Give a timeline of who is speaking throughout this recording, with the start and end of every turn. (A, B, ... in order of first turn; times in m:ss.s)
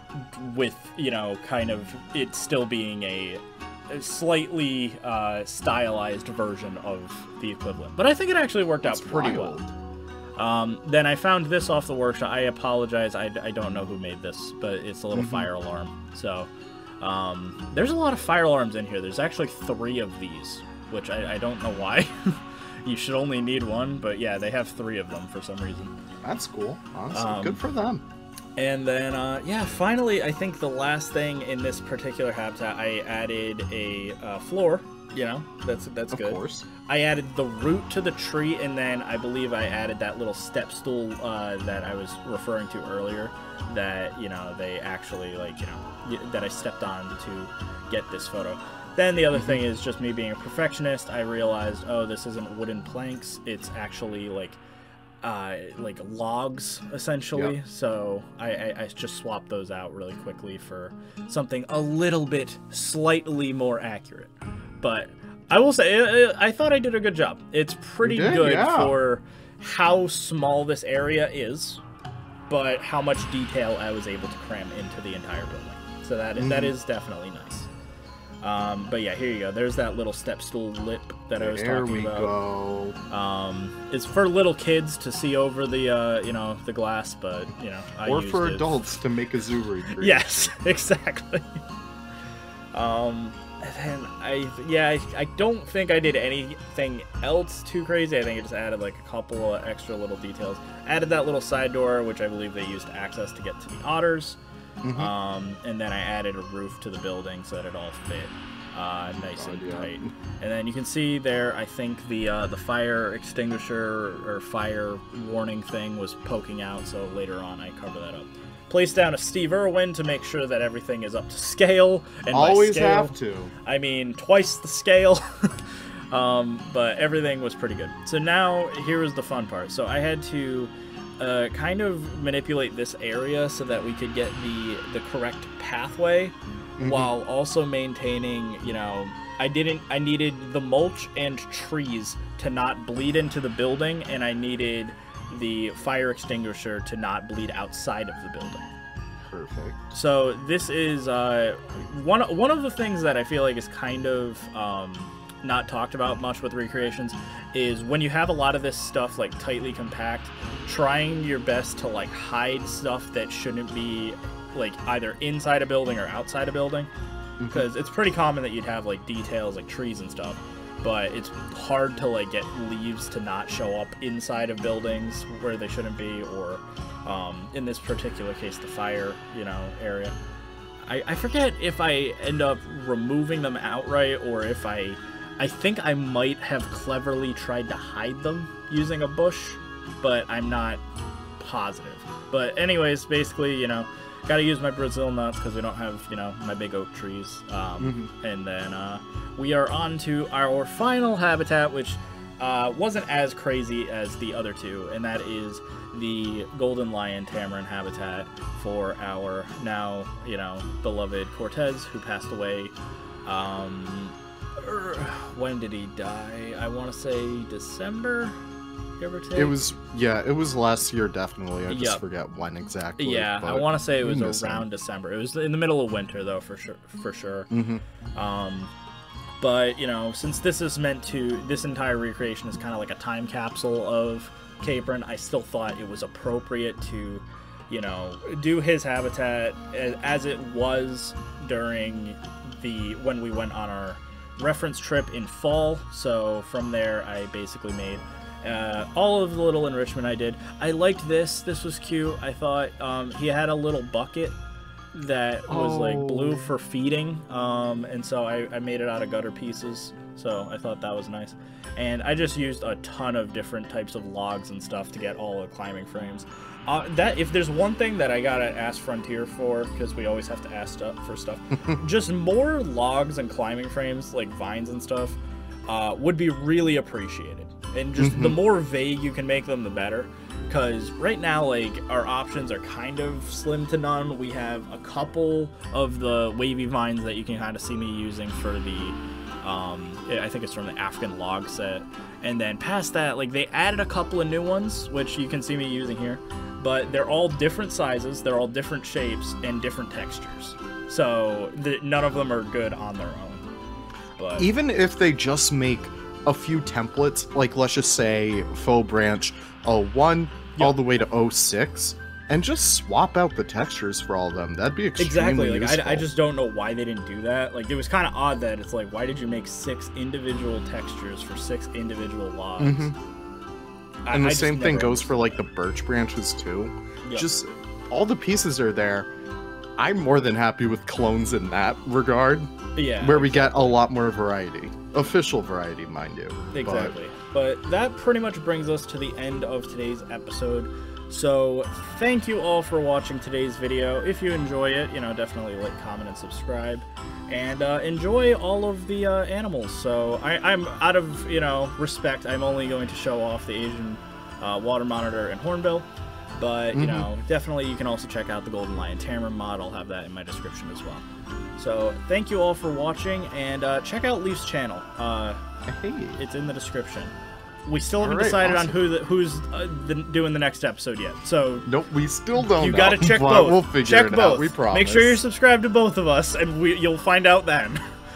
0:00.1-0:09.6 A
0:08.8-0:09.7 B
0:10.4-0:25.9 A
0:15.1-0:15.5 B
0:26.2-0:28.0 B
0:27.1-0:27.6 A
0:28.6-0:54.6 A
0:36.1-0:36.7 B
0:49.3-0:49.6 B
0:55.2-1:11.8 A
1:08.0-1:08.9 B
1:12.5-1:17.7 A
1:16.4-1:16.7 B
1:18.4-1:22.3 A
1:21.4-1:23.0 B
1:23.1-1:28.9 A
1:28.0-1:30.2 B
1:30.0-1:31.6 A
1:32.7-1:44.4 A
1:44.8-1:45.1 B
1:44.9-2:28.7 A
1:49.4-1:50.1 B
2:02.3-2:03.5 B
2:16.8-2:17.1 B
2:29.2-2:29.8 B
2:29.9-2:46.9 A
2:47.4-2:47.7 B
2:47.5-3:00.1 A
3:00.8-3:10.8 A
3:11.4-3:32.7 A
3:17.8-3:18.1 B
3:33.2-3:38.3 A
3:39.0-3:39.6 A
3:39.3-3:44.6 B
3:41.7-3:42.0 A
3:43.0-3:47.5 A
3:47.5-3:47.8 B
3:48.1-3:48.7 A
3:49.4-4:14.4 A
4:14.9-5:03.4 A
4:15.5-4:16.5 B
4:38.0-4:38.4 B
5:04.2-5:04.5 A
5:04.4-5:16.1 B
5:15.0-5:22.9 A
5:22.6-5:23.0 B
5:24.0-5:25.4 A
5:24.1-5:29.1 B
5:29.8-5:36.9 B
5:32.8-5:33.8 A
5:36.5-6:01.0 A
5:56.7-5:57.1 B
6:01.6-6:05.4 A
6:05.6-6:06.2 B
6:06.2-6:07.1 A
6:07.6-6:11.7 A
6:08.0-6:08.8 B
6:11.6-6:15.2 B
6:12.4-6:17.8 A